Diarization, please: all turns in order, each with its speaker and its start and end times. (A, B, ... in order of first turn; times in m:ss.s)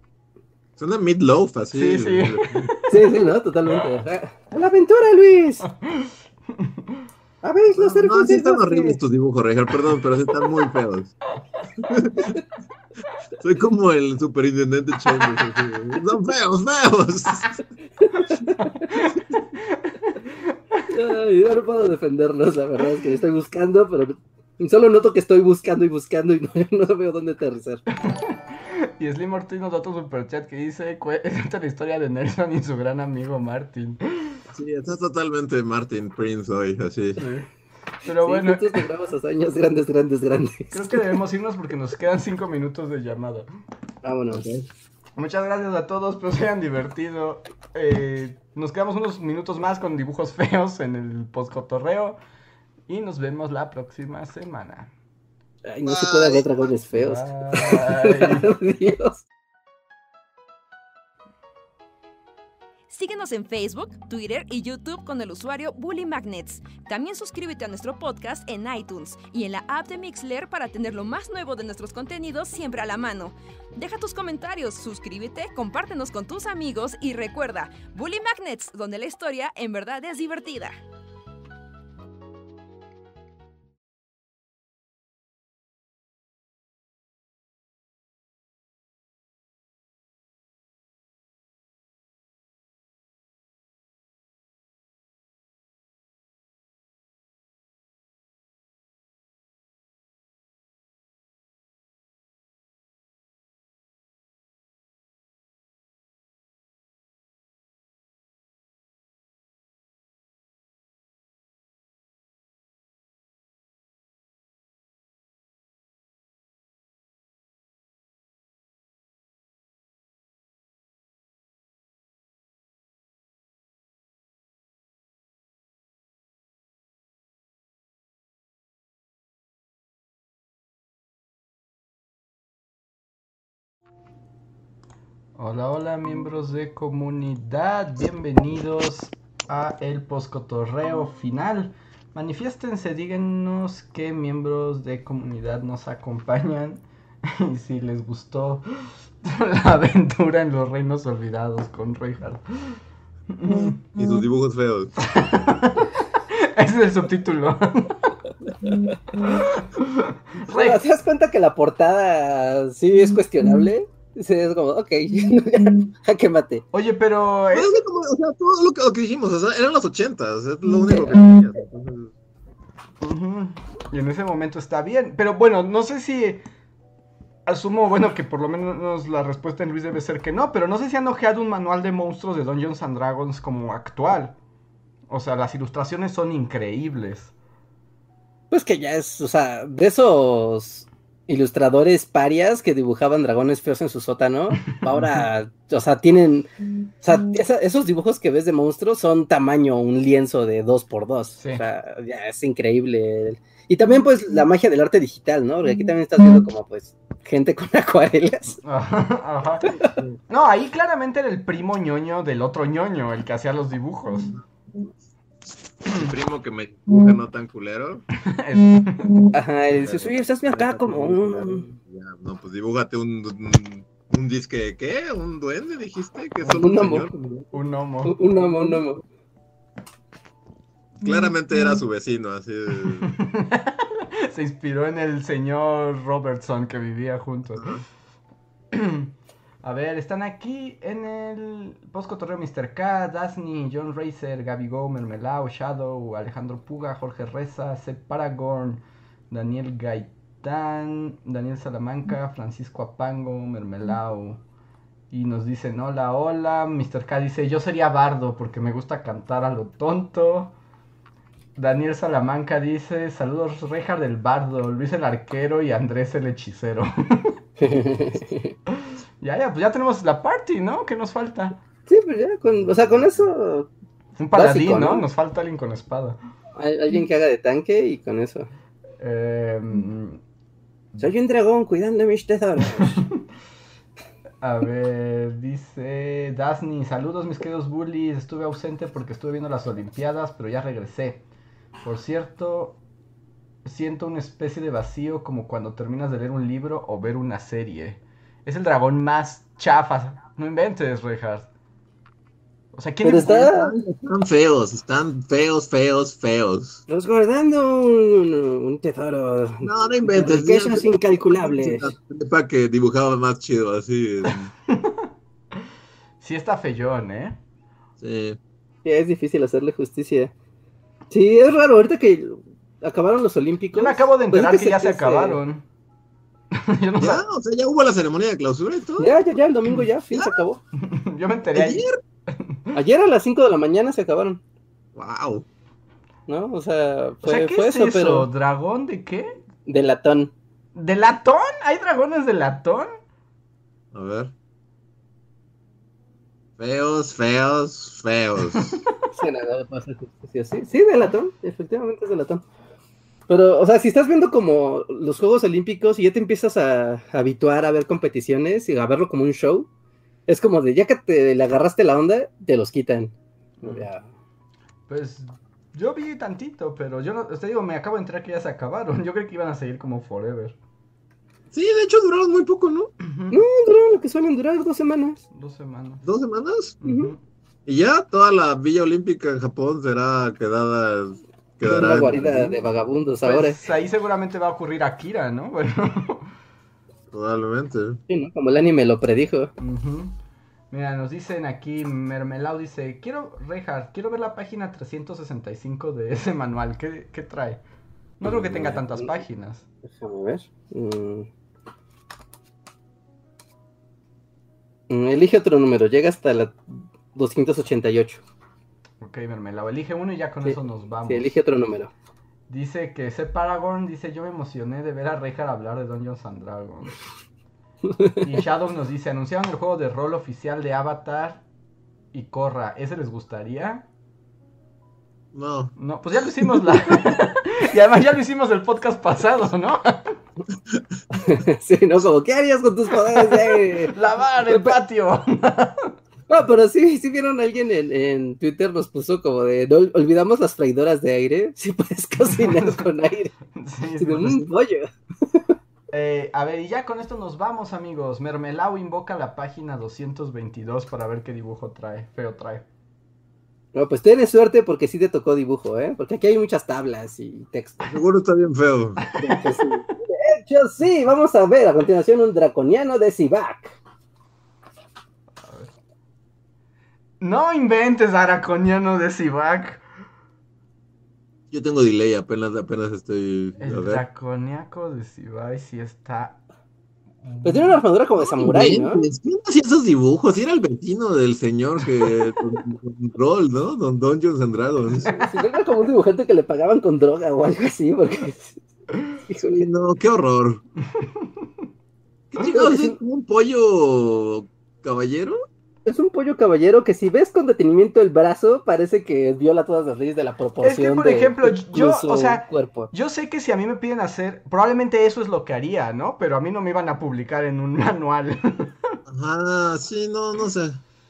0:00.8-0:02.7 A
0:01.7-0:03.0 B
0:02.9-0:05.7 C
0:05.8-0:06.7 B
0:07.4-0:08.9 C
0:07.8-0:11.1 A
0:11.8-0:12.3 A
0:13.4-0:17.5 A
0:18.0-0:18.8 C
0:18.9-0:20.2 B
0:20.9-0:27.8 C
0:28.1-0:34.0 B
0:34.5-0:37.2 A
0:37.2-0:37.5 B
0:38.0-0:38.8 B
0:38.2-0:41.0 C
0:40.7-0:43.5 B
0:44.0-0:44.5 C
0:44.3-0:44.6 A
0:45.2-0:52.2 B
0:52.9-0:54.9 B
0:55.6-0:59.2 C
0:55.8-0:56.4 A
0:56.9-0:58.5 B
1:02.9-1:20.8 D
2:15.4-2:32.8 B
2:33.3-2:33.8 B
2:34.0-2:34.9 A
2:35.0-2:38.2 B
2:39.1-2:40.9 B
2:40.5-2:46.6 C
2:46.7-2:47.8 B
2:47.5-2:52.1 A
2:50.8-2:51.2 C
2:53.0-2:56.4 B
2:57.4-3:04.4 B
3:05.1-3:07.3 B
3:08.5-3:16.5 C
3:14.9-3:15.2 B
3:17.0-3:28.6 C
3:28.6-3:29.7 B
3:30.3-3:34.3 B
3:35.8-3:38.0 A
3:38.2-3:39.3 B
3:39.3-3:41.6 C
3:39.7-3:47.4 A
3:46.4-3:47.1 C
3:47.5-3:48.8 B
3:48.0-3:49.0 C
3:51.0-3:53.1 A
3:52.9-3:57.8 B
3:57.6-3:57.8 A
3:58.7-3:59.1 B
3:59.6-4:14.4 B
4:15.1-4:20.5 B
4:21.6-4:27.4 B
4:27.6-4:28.5 C
4:28.7-4:31.6 B
4:31.9-4:33.7 C
4:34.2-4:36.2 B
4:34.3-4:35.1 C
4:36.6-4:38.5 C
4:39.0-4:40.2 B
4:41.0-4:43.0 C
4:42.8-4:43.1 B
4:44.4-4:51.2 B
4:51.8-4:52.8 B
4:53.6-5:01.5 B
5:02.7-5:03.5 B
5:03.0-5:03.7 C
5:03.4-5:06.8 A
5:06.9-5:11.9 C
5:09.6-5:14.5 A
5:14.7-5:15.0 B
5:16.2-5:17.4 B
5:18.0-5:18.4 A
5:18.8-5:20.3 C
5:21.1-5:25.4 C
5:23.7-5:25.6 B
5:26.5-5:27.2 B
5:27.0-5:29.1 A
5:29.0-5:30.6 C
5:30.1-5:30.4 A
5:30.8-5:32.6 B
5:31.5-5:32.0 A
5:32.7-5:34.4 C
5:35.0-5:35.4 A
5:36.3-5:38.3 C
5:37.2-5:39.4 B
5:39.6-5:40.3 C
5:40.7-5:42.9 B
5:43.9-5:44.3 A
5:46.6-5:48.8 A
5:49.1-5:52.4 C
5:53.3-5:59.7 C
6:00.3-6:04.0 C
6:03.6-6:03.9 B
6:04.9-6:10.6 B
6:11.5-6:12.9 A
6:13.0-6:13.4 B
6:13.3-6:15.2 C
6:15.3-6:16.0 B
6:16.0-6:16.8 A
6:16.8-6:17.2 B
6:16.8-6:17.1 C
6:17.6-6:22.6 A
6:21.6-6:23.6 C
6:23.2-6:26.3 B
6:27.1-6:28.0 A
6:28.1-6:29.5 C
6:29.6-6:30.2 B
6:30.7-6:37.6 B
6:38.2-6:39.6 B
6:38.2-6:39.2 C
6:39.8-6:41.3 C
6:44.9-6:48.2 C
6:49.0-6:51.4 B
6:50.4-6:51.9 C
6:52.5-6:57.0 B
6:57.9-6:58.2 C
6:58.2-7:01.4 B
7:02.1-7:03.8 B
7:05.3-7:05.7 A
7:05.8-7:10.2 B
7:11.1-7:14.8 C
7:13.1-7:15.9 B
7:16.3-7:23.3 C
7:22.3-7:22.9 B
7:23.6-7:24.4 B
7:24.0-7:25.4 C
7:25.9-7:32.6 B
7:33.7-7:37.9 C
7:37.9-7:39.0 A
7:39.0-7:39.5 B
7:39.2-7:43.8 C
7:45.4-7:45.7 B
7:47.2-7:49.8 B
7:51.5-7:54.0 A
7:53.6-7:56.4 B
7:57.3-7:57.8 B
7:57.4-7:59.0 C
7:58.4-8:05.1 A
8:05.0-8:08.6 C
8:09.3-8:09.7 C
8:09.5-8:10.6 A
8:10.9-8:11.5 B
8:12.3-8:15.4 A
8:12.4-8:13.0 C
8:15.8-8:22.9 C
8:20.6-8:28.9 B
8:29.1-8:30.8 A